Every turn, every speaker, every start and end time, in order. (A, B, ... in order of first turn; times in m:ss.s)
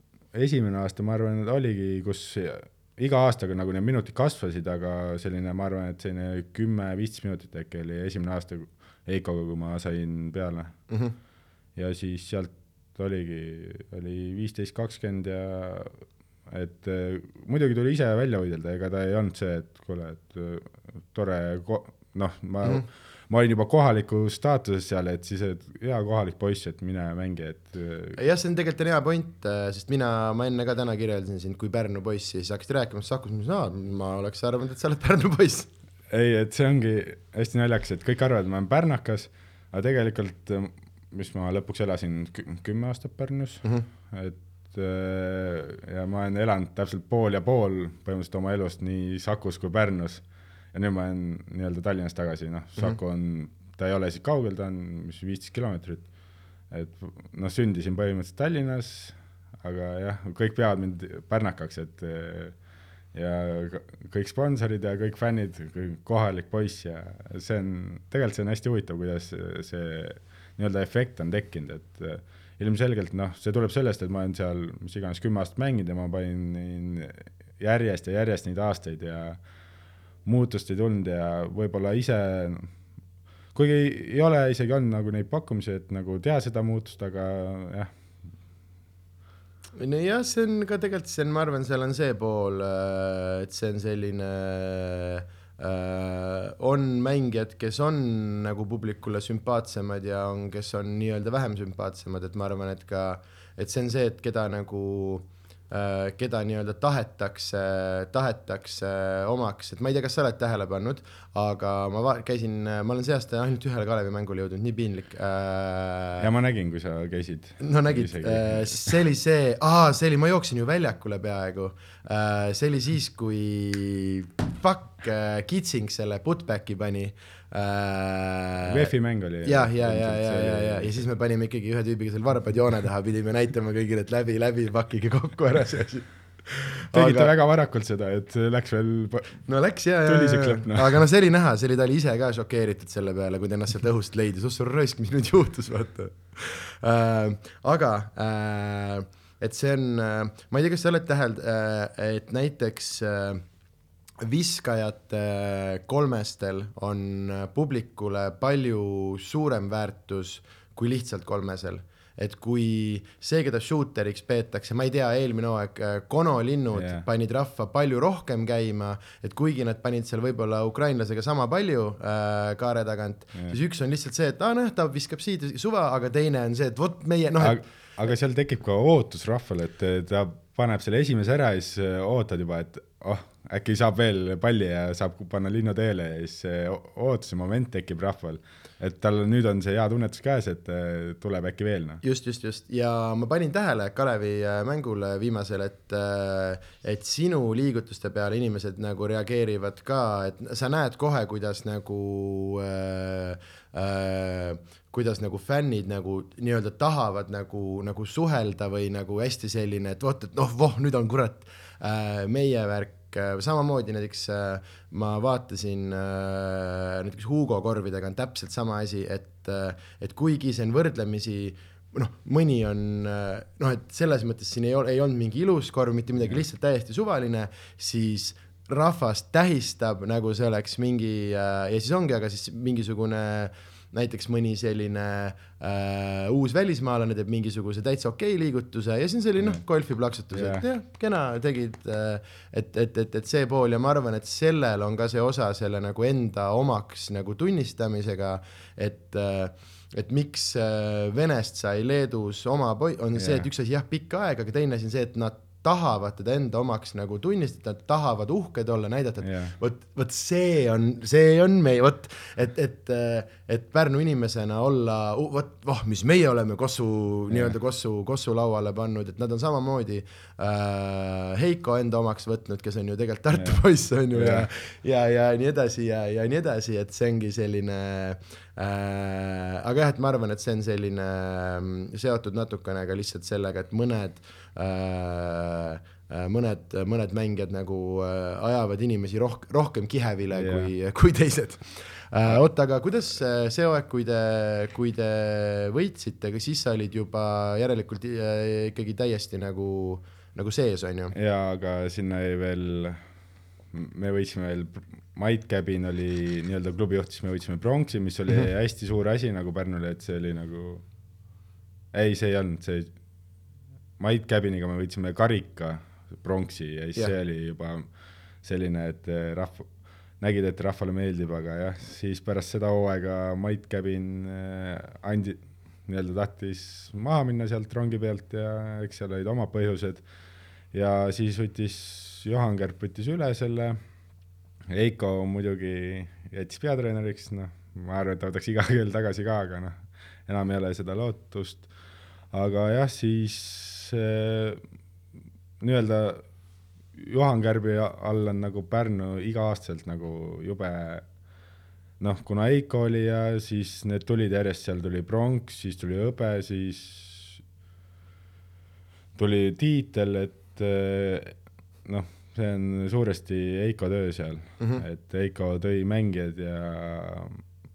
0:00.3-0:10.7 A
0:10.9-0:11.1 B
0:11.8-0:28.2 A
0:28.2-0:35.7 B
0:36.1-0:56.0 A
0:56.7-1:02.5 A
1:03.1-1:19.4 A
1:20.2-1:22.7 A
1:23.5-1:27.9 A
1:29.8-1:56.3 B
1:56.2-1:59.0 A
1:57.6-2:08.9 B
2:08.6-2:11.0 A
2:09.4-2:17.3 B
2:16.9-2:19.4 A
2:19.4-2:33.4 B
2:20.0-2:21.0 A
2:34.2-2:57.6 B
2:46.7-2:47.0 A
2:57.4-3:12.0 A
3:12.0-5:01.1 B
4:00.3-4:00.6 A
4:13.2-4:13.4 A
4:19.2-4:19.6 A
4:33.3-4:33.6 A
4:34.1-4:34.5 A
4:50.3-4:50.7 A
5:01.1-5:03.0 A
5:03.7-5:10.8 A
5:11.9-5:12.9 A
5:14.0-5:17.9 A
5:18.4-5:19.7 A
5:20.2-5:30.0 A
5:30.7-5:33.8 A
5:34.7-5:41.7 A
5:42.3-5:44.6 A
5:45.6-5:46.2 A
5:47.0-5:51.0 A
5:52.0-5:57.4 A
5:59.2-6:07.4 A